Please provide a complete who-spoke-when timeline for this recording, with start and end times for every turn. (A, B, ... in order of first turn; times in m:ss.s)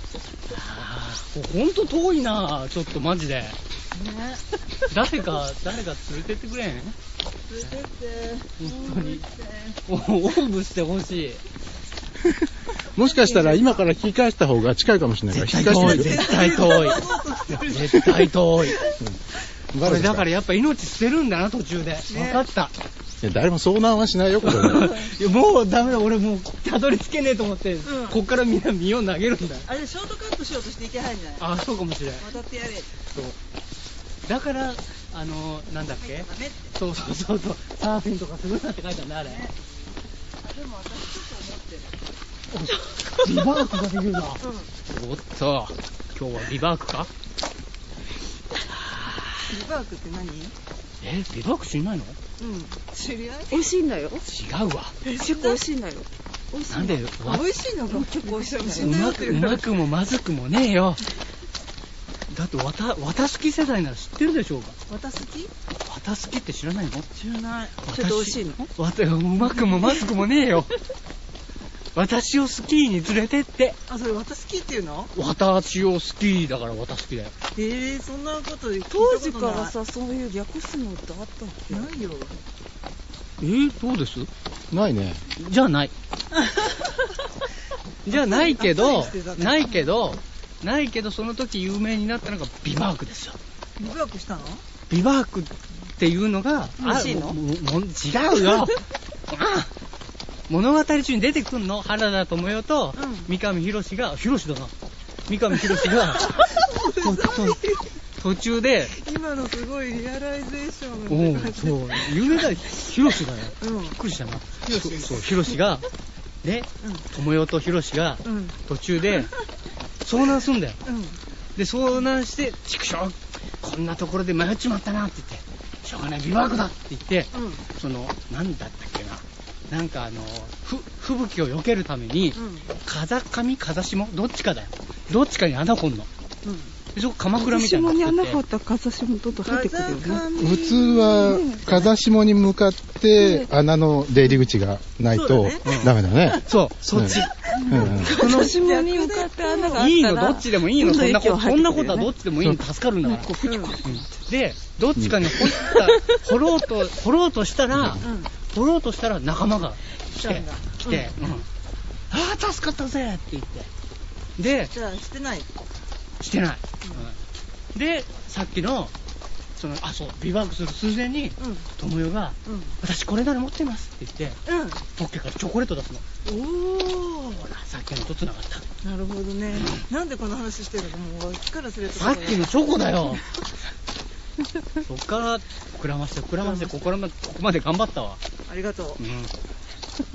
0:00.5-0:03.6 A
0:03.9-0:04.4 B
0:04.9-0:06.9 A
0:07.5-0:09.8 B
0:08.6-0:09.3 A
0:09.8-0:11.4 A
0:12.9-0:16.2 C
0:13.0-0:13.9 B
0:15.3-0:18.9 A
0:15.6-0:19.0 B
0:19.7-0:20.3 C
0:19.8-0:22.7 A
0:22.1-0:22.4 B
0:23.2-0:25.0 C
0:24.4-0:29.7 A
0:27.8-0:28.2 B
0:29.6-0:31.5 B
0:31.4-0:32.3 A
0:32.2-0:33.0 B
0:34.3-0:39.5 A
0:36.0-0:36.7 B
0:39.2-0:39.7 B
0:40.4-0:42.0 B
0:42.5-0:47.1 A
0:44.4-0:44.7 B
0:48.7-0:49.5 A
0:49.5-0:50.5 B
0:51.0-0:52.2 A
0:52.4-0:53.7 B
0:53.5-0:54.2 D
0:54.2-0:55.0 A
0:55.0-0:55.6 B
0:55.1-0:57.1 D
0:56.7-0:57.5 A
0:57.1-0:59.8 B
0:57.8-0:59.3 D
0:58.8-1:01.0 A
1:02.3-1:04.8 A
1:04.9-1:05.5 B
1:05.8-1:07.1 A
1:07.2-1:07.8 B
1:07.8-1:10.7 A
1:07.9-1:08.7 D
1:11.9-1:13.8 A
1:13.9-1:15.1 B
1:15.1-1:17.3 A
1:17.5-1:19.7 B
1:18.9-1:21.9 D
1:21.7-1:22.3 B
1:23.4-1:24.3 A
1:24.7-1:25.2 C
1:25.4-1:25.9 A
1:28.0-1:33.4 A
1:28.1-1:29.9 B
1:33.8-1:34.6 B
1:34.9-1:39.7 A
1:36.8-1:37.4 D
1:40.5-1:44.7 A
1:43.0-1:43.3 B
1:45.3-1:47.7 A
1:45.7-1:47.9 B
1:48.2-1:48.9 A
1:48.9-1:52.4 B
1:51.1-1:55.9 A
1:53.6-1:54.0 B
1:54.6-1:55.3 B
1:56.4-1:59.3 A
1:58.2-1:58.6 B
2:00.0-2:00.8 A
2:00.8-2:01.2 B
2:01.6-2:16.1 A
2:07.3-2:07.6 B
2:12.3-2:12.8 B
2:16.4-2:16.8 B
2:16.9-2:18.4 A
2:17.3-2:21.9 D
2:19.4-2:20.9 B
2:20.3-2:28.2 C
2:23.1-2:23.5 D
2:25.1-2:26.4 B
2:25.6-2:28.6 A
2:27.6-2:32.1 D
2:28.2-2:29.9 B
2:29.7-2:41.5 A
2:33.0-2:34.1 D
2:33.4-2:33.8 B
2:35.0-2:35.2 C
2:35.4-2:36.2 D
2:37.7-2:38.0 C
2:38.0-2:38.3 B
2:40.2-2:41.1 B
2:42.1-2:43.7 A
2:44.4-2:44.7 A
2:44.7-2:45.5 B
2:46.2-2:47.2 A
2:47.7-2:48.9 A
2:49.6-2:56.0 A
2:51.4-2:51.7 B
2:52.4-2:52.8 B
2:54.5-2:54.8 B
2:56.2-2:57.4 B
2:57.3-2:58.7 A
2:58.8-3:02.8 B
3:01.9-3:03.2 A
3:04.8-3:08.2 A
3:06.4-3:06.7 B
3:08.4-3:09.0 B
3:09.0-3:09.3 A